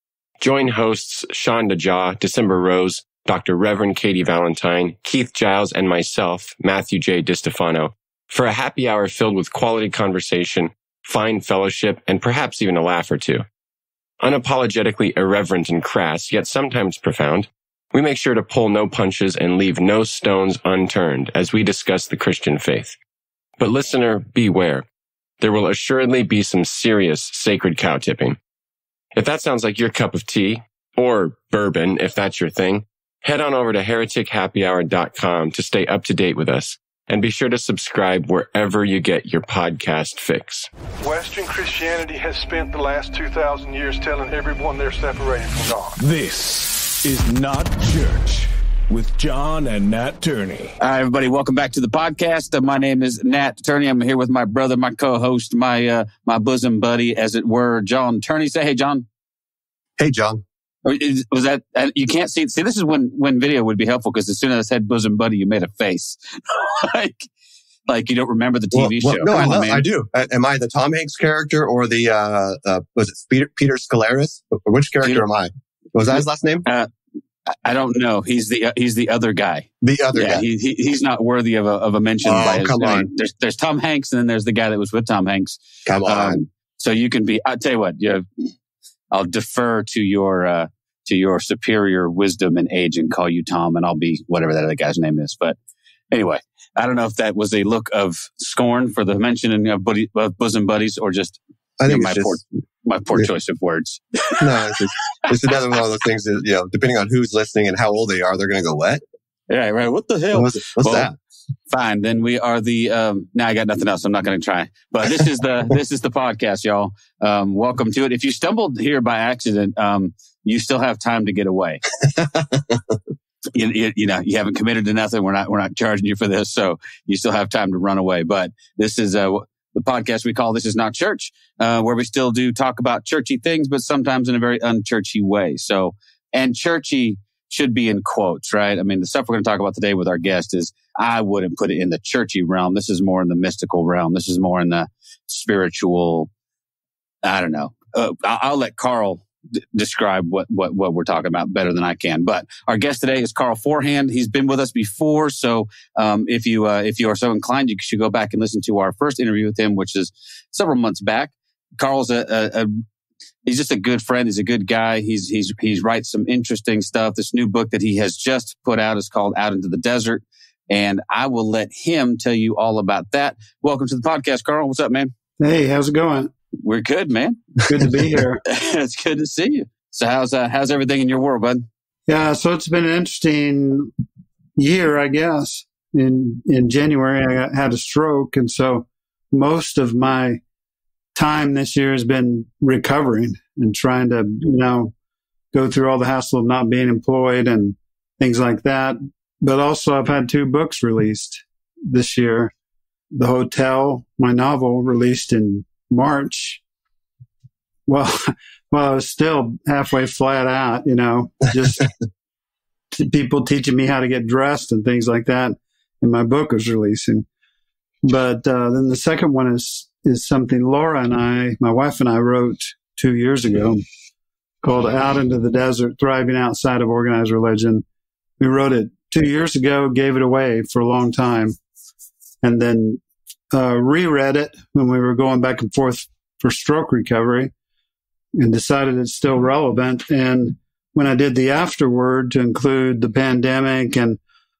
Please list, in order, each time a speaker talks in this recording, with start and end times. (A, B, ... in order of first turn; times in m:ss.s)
0:00.4-0:13.4 A
0:14.2-0:23.0 A
0:23.6-0:24.8 A
0:25.4-0:28.4 A
0:29.1-0:40.7 A
0:41.0-0:46.0 B
0:46.0-0:50.7 C
0:50.8-0:59.0 D
1:00.0-1:00.4 E
1:00.8-1:07.3 D
1:07.9-1:09.8 D
1:08.7-1:16.6 E
1:16.1-1:16.9 D
1:17.5-1:28.5 D
1:19.8-1:20.4 E
1:22.2-1:23.1 E
1:25.8-1:26.4 E
1:29.1-1:35.6 D
1:36.1-1:44.7 D
1:41.8-1:42.4 E
1:44.4-1:49.0 E
1:49.5-1:51.1 D
1:50.3-1:51.1 E
1:51.7-2:01.8 D
2:02.2-2:03.0 E
2:03.5-2:26.3 D
2:27.2-2:42.7 D
2:43.4-2:55.1 D
2:55.4-2:56.3 F
2:56.6-2:57.4 D
2:57.7-2:58.4 F
2:58.4-3:01.7 D
3:02.1-3:03.9 F
3:04.6-3:10.4 F
3:11.1-3:14.9 F
3:15.5-3:22.5 F
3:23.1-3:26.6 F
3:27.9-3:31.9 F
3:32.9-3:37.2 F
3:38.0-3:43.8 F
3:44.6-3:47.8 F
3:48.4-3:51.6 F
3:52.4-3:53.0 F
3:53.5-3:57.5 F
3:58.3-4:04.2 F